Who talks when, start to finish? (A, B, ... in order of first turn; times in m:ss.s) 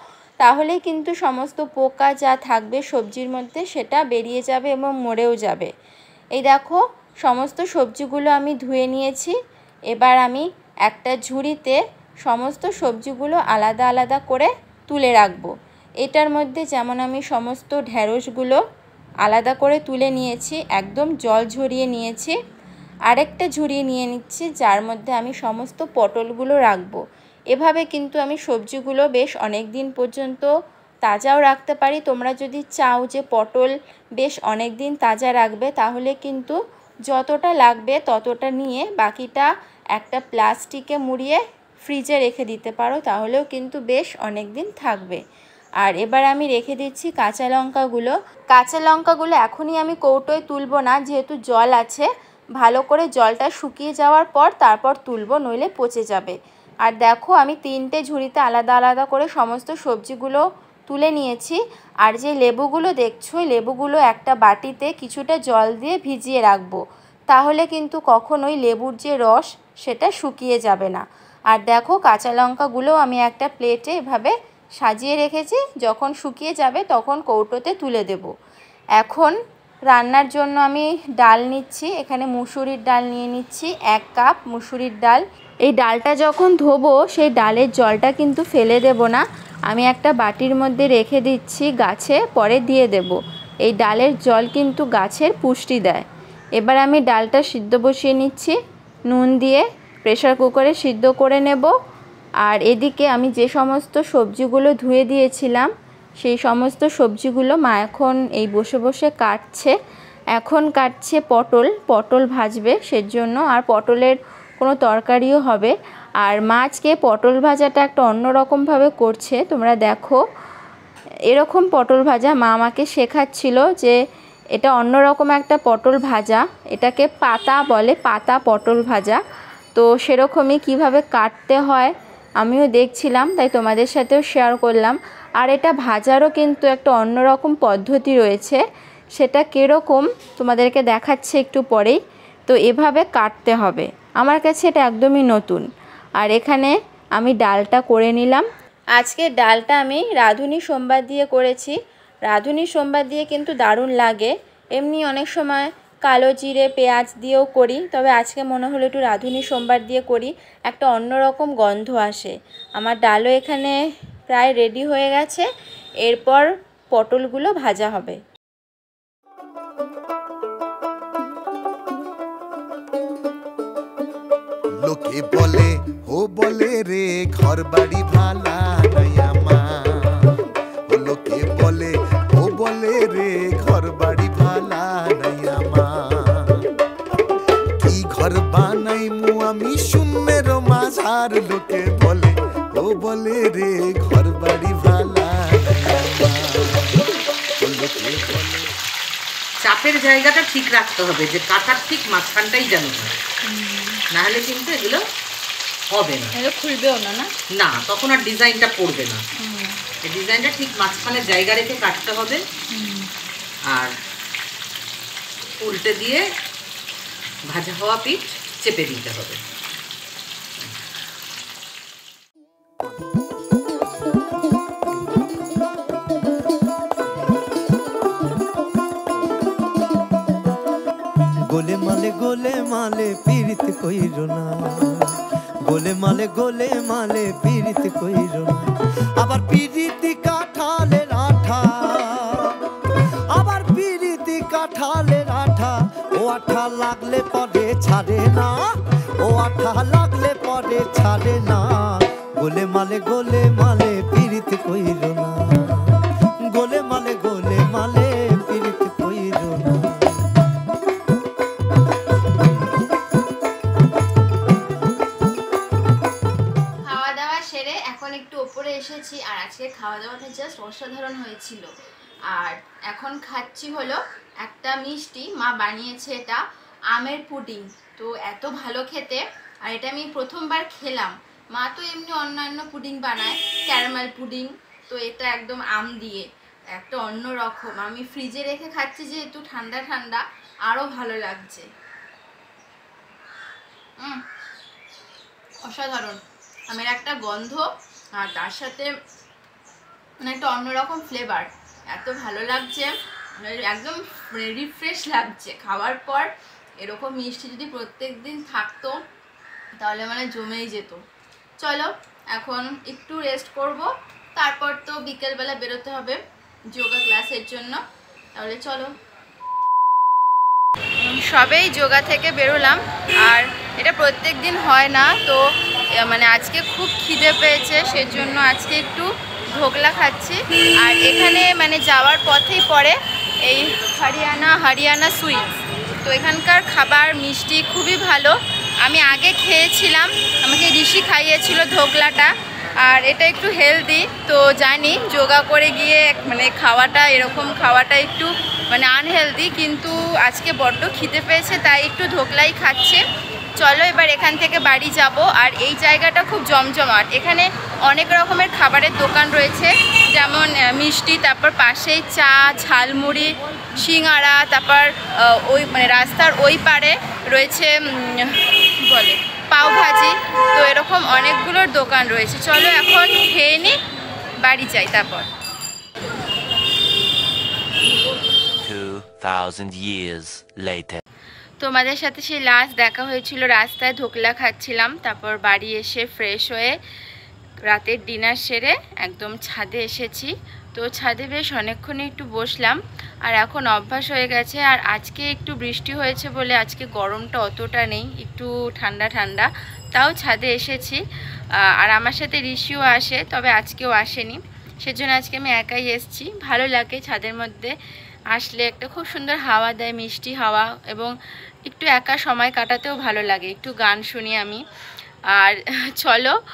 0:00.4-0:05.7 A
0:06.3-0:09.3 A
0:09.9-0:15.5 A
0:16.0-0:18.6 A
0:19.2-0:22.4 A
0:23.1-0:27.0 A
0:27.5-0:30.5 A
0:31.0-0:36.6 A
0:37.1-0:45.2 A
0:45.8-1:06.8 A
1:07.3-1:18.3 A
1:19.0-1:19.3 A
1:19.9-1:36.0 A
1:36.6-1:38.6 A
1:39.1-1:41.7 A
1:42.4-1:49.7 A
1:50.3-2:00.2 A
2:01.3-2:03.9 A
2:04.5-2:09.2 A
2:09.7-2:18.6 A
2:19.2-2:25.6 A
2:26.2-2:31.8 A
2:32.3-2:43.8 A
2:44.3-2:45.5 A
2:46.0-2:48.2 A
2:54.8-3:06.7 B
3:07.8-3:17.0 B
3:17.6-3:18.7 B
3:19.6-3:23.2 C
3:23.5-3:24.0 A
3:24.1-3:25.0 C
3:25.9-3:26.3 C
3:26.4-3:27.3 A
3:27.5-3:29.2 C
3:29.4-3:29.8 A
3:30.0-3:32.4 C
3:32.7-3:33.1 A
3:33.7-3:33.9 C
3:35.6-3:36.2 C
3:37.5-3:39.4 C
3:51.5-4:02.6 D
4:03.3-4:08.6 D
4:09.2-4:20.2 D
4:26.8-4:31.7 A
4:32.3-4:51.6 A
4:55.6-4:58.9 A
5:00.2-5:06.3 A
5:06.8-5:09.0 A
5:09.8-5:11.0 A
5:11.6-5:16.2 A
5:16.7-5:17.8 A
5:18.3-5:18.9 A
5:21.0-5:25.4 A
5:26.0-5:35.4 A
5:36.0-5:42.3 A
5:42.8-5:53.0 A
5:53.6-6:13.8 A
6:14.4-6:15.2 A
6:18.6-6:21.0 E
6:21.6-6:26.8 A
6:27.6-6:41.0 A
6:41.7-6:47.7 A
6:48.3-6:51.1 A
6:51.6-6:54.6 A
6:55.3-6:56.3 A